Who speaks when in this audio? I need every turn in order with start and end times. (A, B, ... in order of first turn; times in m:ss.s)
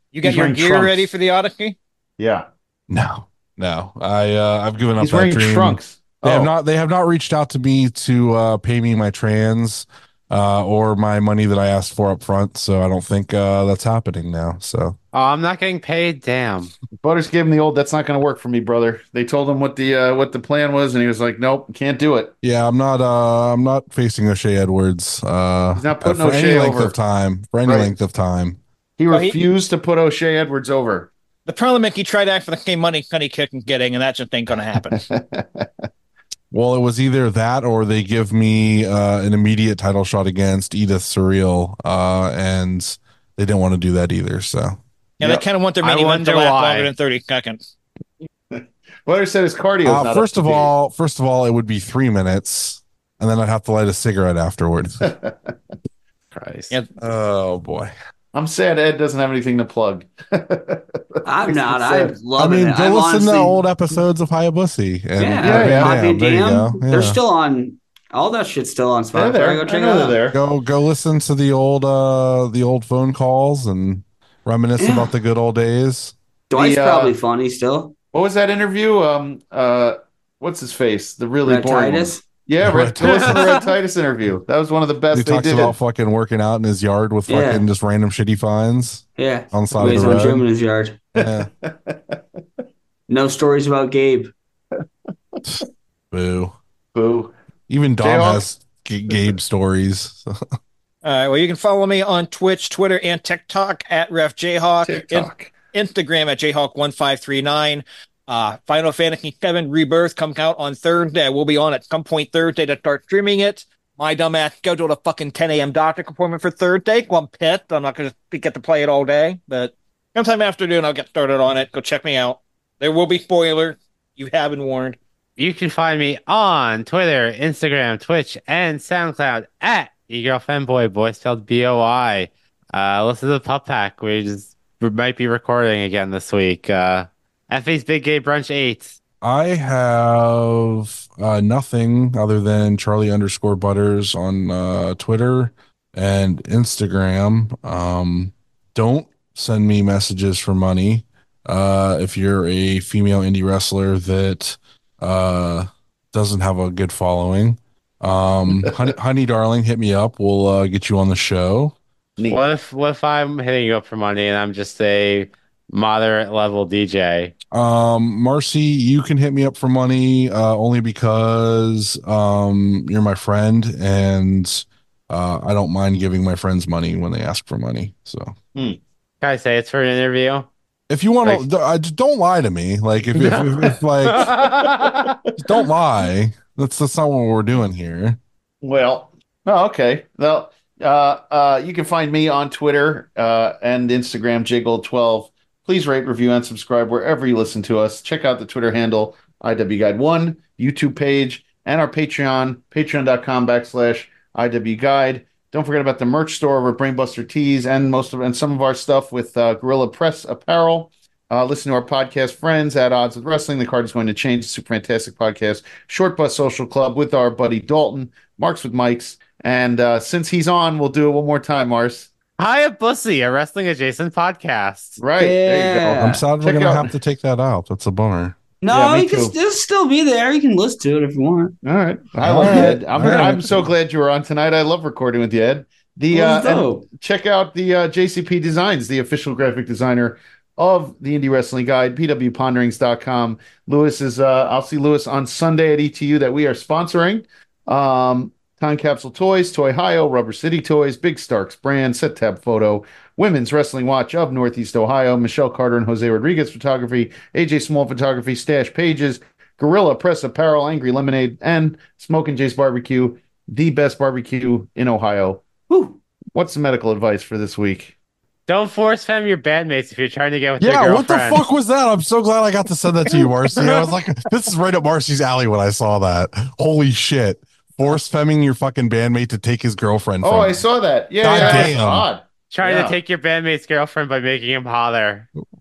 0:00.1-0:01.8 A
0:00.2-0:01.1 B
0:02.2-0:02.4 B
0:02.9-0:15.0 C
0:05.0-0:06.5 B
0:15.1-0:16.7 D
0:17.0-0:22.4 B
0:22.4-0:28.6 C
0:25.7-0:27.0 B
0:27.6-0:27.9 B
0:29.0-0:31.1 B
0:29.1-0:29.4 A
0:31.5-0:35.0 A
0:34.8-0:35.9 B
0:36.5-0:44.8 C
0:45.2-0:47.6 A
0:45.8-0:46.9 D
0:48.5-0:50.7 B
0:49.8-0:55.1 C
0:55.0-0:55.5 B
0:56.4-0:56.7 D
0:57.0-0:57.9 C
0:58.3-1:02.2 B
1:01.2-1:03.6 E
1:02.4-1:07.2 C
1:05.2-1:10.2 E
1:05.4-1:06.0 B
1:09.1-1:10.4 B
1:10.3-1:16.1 C
1:14.8-1:15.1 E
1:16.5-1:17.9 E
1:16.5-1:17.1 B
1:18.1-1:25.7 B
1:21.4-1:22.2 E
1:22.6-1:23.6 C
1:25.1-1:30.4 C
1:27.3-1:27.6 E
1:29.2-1:31.0 E
1:31.1-1:31.5 C
1:31.2-1:32.2 B
1:33.1-1:34.3 E
1:35.4-1:36.6 C
1:36.9-1:37.3 B
1:37.7-1:40.4 C
1:38.0-1:38.5 B
1:41.0-2:05.0 A
1:44.8-1:45.5 B
2:05.4-2:18.9 D
2:19.2-2:41.8 C
2:42.2-2:42.4 B
2:42.3-2:47.3 D
2:47.5-2:58.3 C
2:59.2-3:00.5 D
3:00.9-3:04.4 C
3:03.2-3:03.7 B
3:04.1-3:05.1 D
3:04.3-3:05.2 B
3:05.4-3:08.2 C
3:08.6-3:42.1 B
3:42.4-3:45.0 D
3:45.0-3:46.9 B
3:45.2-3:46.2 E
3:45.9-3:48.4 C
3:48.6-3:51.6 E
3:48.7-3:49.4 B
3:51.6-4:25.7 B
3:52.2-3:53.7 C
3:52.4-3:52.7 E
3:56.1-3:56.8 E
4:26.3-4:27.9 B
4:28.5-4:31.4 D
4:30.6-4:40.6 C
4:33.6-4:33.9 D
4:40.2-4:43.0 B
4:41.2-4:42.0 C
4:41.3-4:41.7 D
4:42.5-4:45.3 D